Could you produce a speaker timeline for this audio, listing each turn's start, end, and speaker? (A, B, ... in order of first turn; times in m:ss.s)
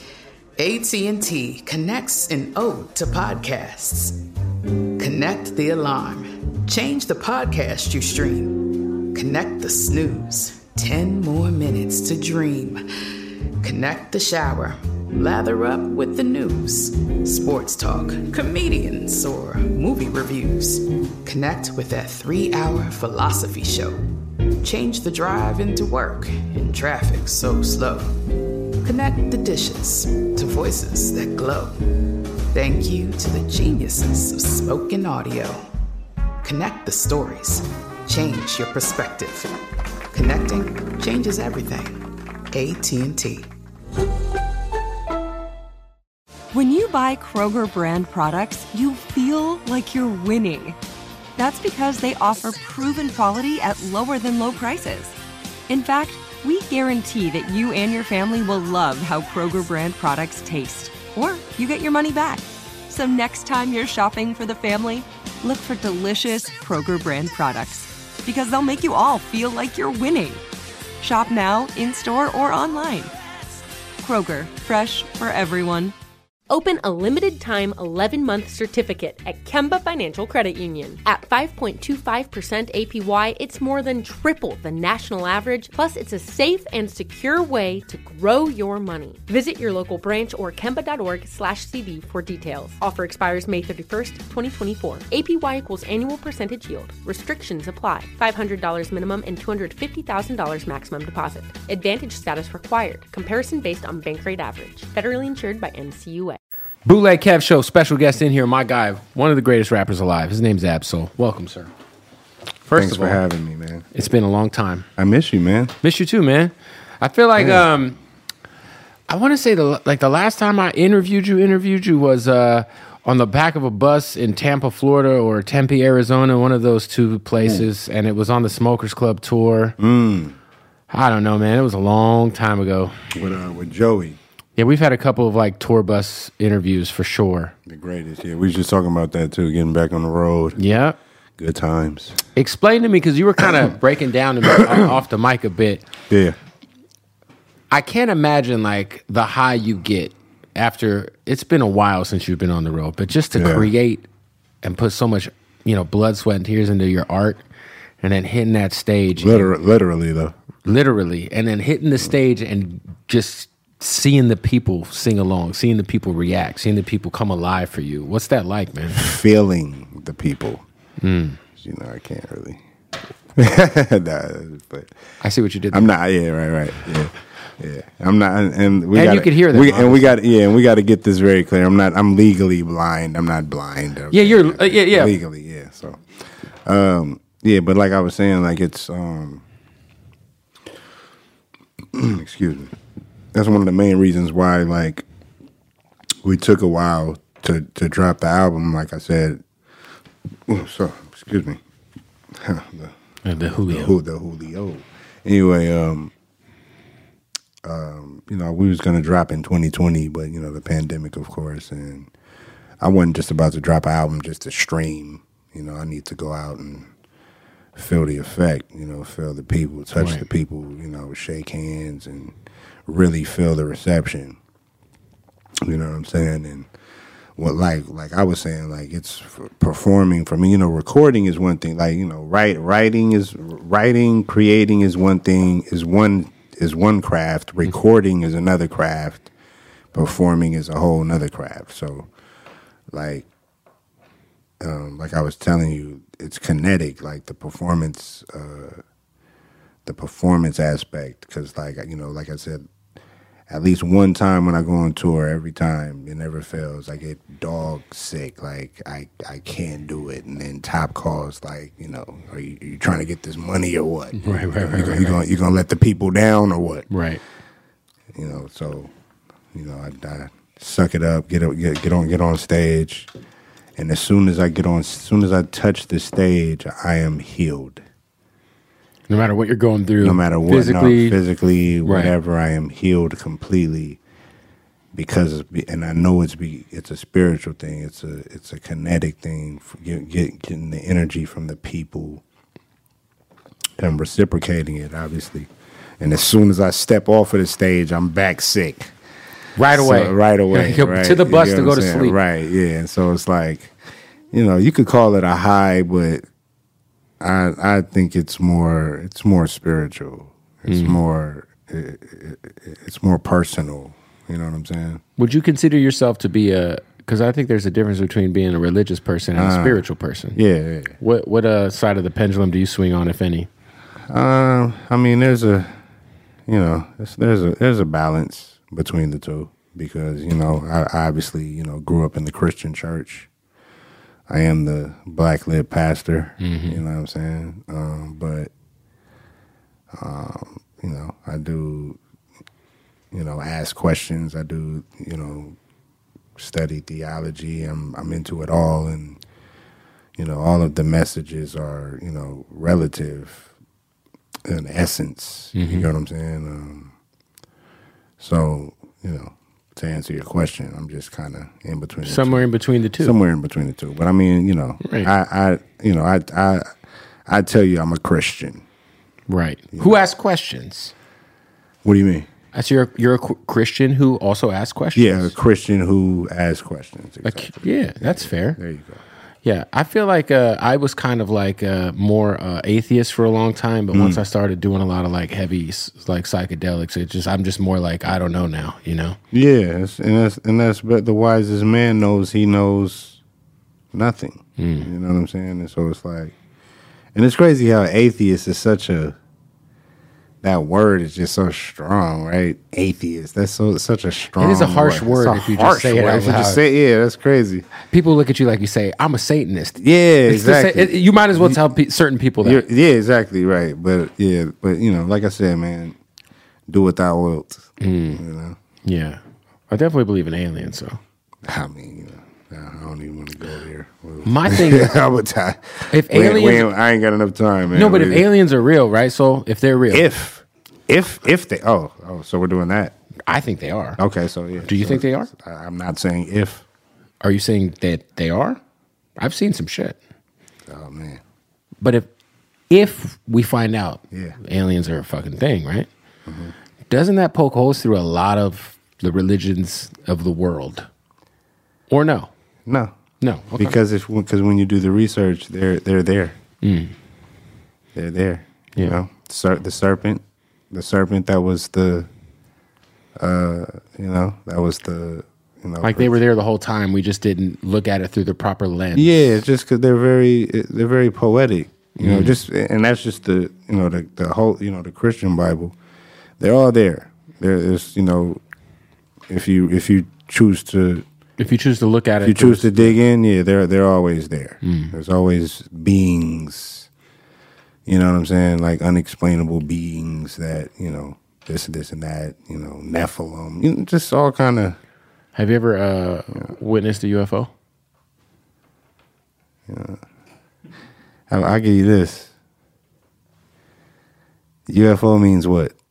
0:00.6-0:04.2 A
0:05.0-0:12.8 A
0:13.6-0:28.2 A
0:28.8-0:31.8 A
0:32.5-0:35.7 A
0:36.4-0:39.5 A
0:40.1-0:43.5 A
0:46.5-0:50.8 B
0:51.4-0:55.2 B
0:55.7-1:10.4 B
1:11.0-1:13.1 B
1:14.0-1:15.9 B
1:16.5-1:46.4 C
1:46.8-1:51.7 D
1:52.6-1:53.2 D
1:52.7-1:53.8 E
1:53.9-1:54.9 D
1:55.0-1:55.7 E
1:55.8-1:58.0 D
1:57.4-1:57.6 E
1:59.1-2:09.8 D
2:09.8-2:10.3 E
2:10.9-2:12.9 D
2:13.1-2:14.2 E
2:14.6-2:17.5 D
2:17.7-2:20.6 E
2:20.6-2:21.0 D
2:21.4-2:22.2 E
2:22.4-2:25.8 D
2:26.1-2:26.4 E
2:27.7-2:34.0 D
2:33.3-2:33.7 E
2:34.6-2:37.4 D
2:38.0-2:39.5 D
2:39.2-2:40.3 E
2:40.6-2:49.1 D
2:48.9-2:50.6 E
2:51.0-2:51.4 D
2:51.6-2:52.6 E
2:53.3-2:54.9 E
2:55.2-2:55.9 D
2:55.7-3:06.0 E
2:58.9-3:00.1 D
3:04.1-3:05.2 D
3:06.6-3:09.4 E
3:11.9-3:12.7 E
3:13.3-3:15.0 E
3:16.2-3:19.4 E
3:20.5-3:21.6 E
3:22.3-3:22.9 E
3:23.2-3:24.0 D
3:23.6-3:26.1 E
3:27.6-3:32.1 E
3:32.8-3:36.9 E
3:37.7-3:42.3 E
3:40.0-3:40.2 D
3:42.9-3:44.4 E
3:45.6-3:46.7 E
3:47.4-3:59.3 E
3:59.9-4:02.1 E
4:02.9-4:03.3 E
4:04.6-4:08.8 E
4:09.8-4:12.7 E
4:13.5-4:26.9 E
4:24.1-4:25.2 D
4:26.9-4:27.2 D
4:28.1-4:28.9 E
4:29.5-4:33.1 E
4:33.8-4:37.8 E
4:39.1-4:41.2 D
4:40.0-4:44.0 E
4:41.8-4:42.1 D
4:44.9-4:52.2 E
4:53.8-4:55.5 E
4:56.0-4:58.9 E
4:59.6-5:02.2 D
4:59.7-5:03.8 E
5:04.3-5:06.2 E
5:07.2-5:15.0 E
5:10.7-5:11.0 D
5:15.2-5:20.4 D
5:19.4-5:19.8 E
5:20.3-5:21.0 E
5:21.0-5:23.5 D
5:24.1-5:25.8 E
5:26.5-5:33.3 E
5:34.3-5:38.5 E
5:36.4-5:36.8 D
5:39.9-5:42.0 E
5:43.1-5:45.6 E
5:46.4-5:49.2 E
5:50.2-5:53.5 E
5:54.4-5:56.9 E
5:55.5-5:55.9 D
5:58.2-6:02.4 E
6:02.0-6:03.1 D
6:03.0-6:06.7 E
6:04.8-6:05.1 D
6:07.3-6:08.6 E
6:09.3-6:10.9 D
6:09.7-6:10.0 E
6:11.8-6:12.3 E
6:12.5-6:15.3 D
6:14.9-6:19.0 E
6:17.2-6:18.6 D
6:19.4-6:29.2 D
6:23.9-6:24.2 E
6:29.3-6:33.2 E
6:33.9-6:36.3 E
6:34.6-6:34.9 D
6:37.1-6:39.2 E
6:40.4-6:47.6 E
6:44.4-6:46.6 D
6:47.9-6:52.7 D
6:49.8-6:51.6 E
6:52.4-6:56.0 E
6:56.7-6:58.6 E
6:57.8-6:58.2 D
6:58.8-7:01.0 D
7:01.4-7:08.3 E
7:04.2-7:05.0 D
7:05.9-7:06.7 D
7:07.7-7:10.1 D
7:09.9-7:13.0 E
7:13.3-7:14.0 D
7:14.0-7:16.6 E
7:14.6-7:15.3 D
7:17.2-7:18.6 D
7:19.2-7:20.0 D
7:20.7-7:21.2 E
7:21.8-7:22.1 D
7:22.7-7:25.9 D
7:24.1-7:24.4 E
7:26.2-7:26.5 E
7:26.9-7:30.9 D
7:31.9-7:32.3 D
7:32.6-7:32.9 E
7:33.2-7:33.8 D
7:33.6-7:36.4 E
7:36.6-7:36.9 D
7:37.9-7:42.1 E
7:43.2-7:46.2 E
7:45.8-7:49.4 D
7:48.9-7:55.8 E
7:52.0-7:52.4 D
7:56.4-7:58.4 E
7:59.3-8:01.0 E
8:01.4-8:03.0 D
8:02.2-8:06.9 E
8:04.6-8:04.9 D
8:07.8-8:14.8 E
8:15.4-8:17.5 D
8:19.7-8:20.0 E
8:21.3-8:22.3 E
8:24.7-8:25.7 E